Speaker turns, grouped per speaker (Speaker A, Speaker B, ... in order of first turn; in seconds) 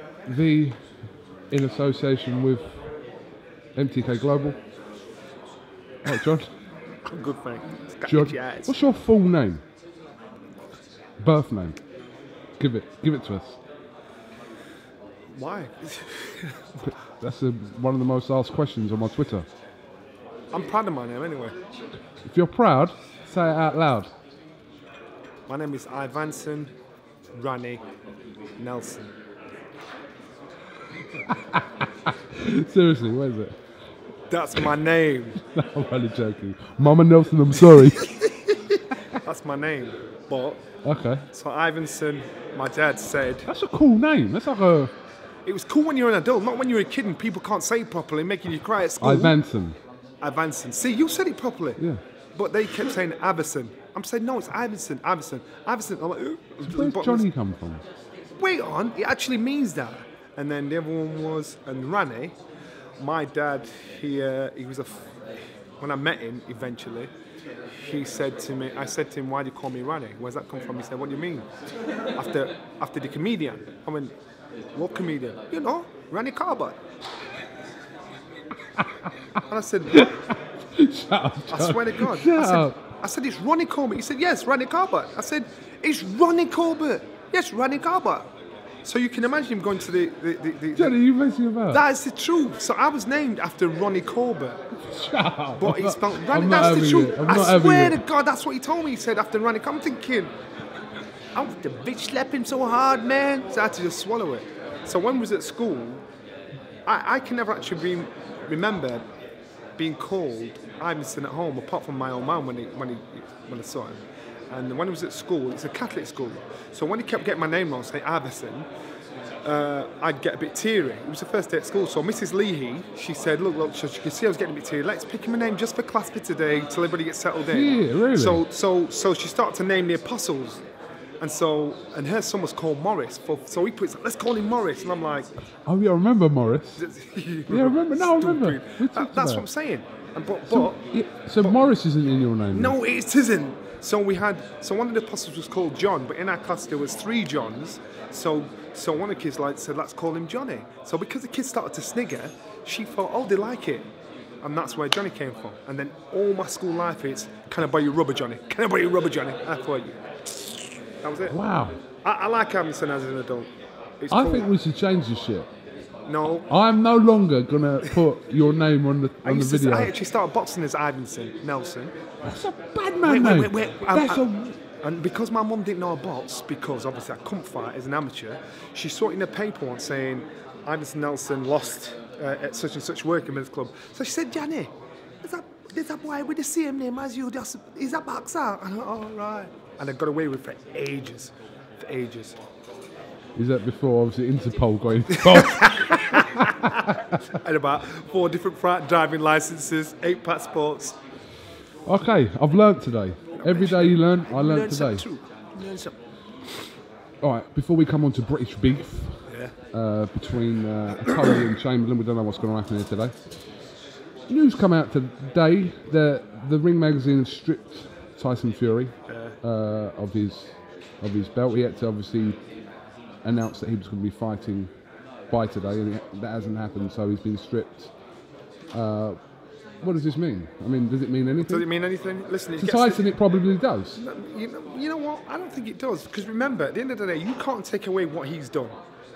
Speaker A: 0.2-2.8, 3.8-4.5, 6.0-6.5, 8.1-9.6, 11.2-11.8, 12.6-13.6, 16.8-19.4, 22.2-24.1, 31.3-33.5, 35.5-38.2, 40.8-41.2, 43.5-44.9, 49.0-49.8, 56.6-57.8, 79.9-82.8, 90.8-91.8, 94.8-98.0, 127.5-128.4, 135.7-136.8, 137.5-139.5, 140.5-142.7, 161.3-161.8, 164.1-165.5, 166.5-169.9, 172.2-174.5, 193.3-196.5, 201.8-205.1, 207.2-213.6, 214.3-222.4, 223.2-224.7, 225.3-227.9, 228.7-229.2, 229.8-231.7, 232.6-234.0
Speaker B: 7.0-8.7, 15.3-16.9, 20.5-21.5, 25.5-26.7, 27.3-27.8, 28.6-29.1, 34.3-35.4, 38.0-40.6, 41.3-43.5, 45.5-49.4, 50.2-51.8, 52.3-57.3, 58.4-62.3, 63.0-65.1, 65.8-67.1, 67.7-71.5, 72.1-74.1, 74.7-76.8, 79.5-80.2, 81.5-88.3, 88.8-91.0, 91.7-94.6, 95.5-100.3, 101.3-106.0, 106.8-109.0, 109.8-114.0, 114.5-118.7, 119.4-130.6, 131.2-135.3, 136.8-141.7, 142.5-153.9, 154.4-161.4, 162.0-164.5, 166.1-166.5, 169.2-171.9, 173.0-184.7, 185.2-192.4, 195.3-200.9, 203.3-205.9, 209.3-209.5, 219.1-219.3, 231.4-233.1, 233.9-238.8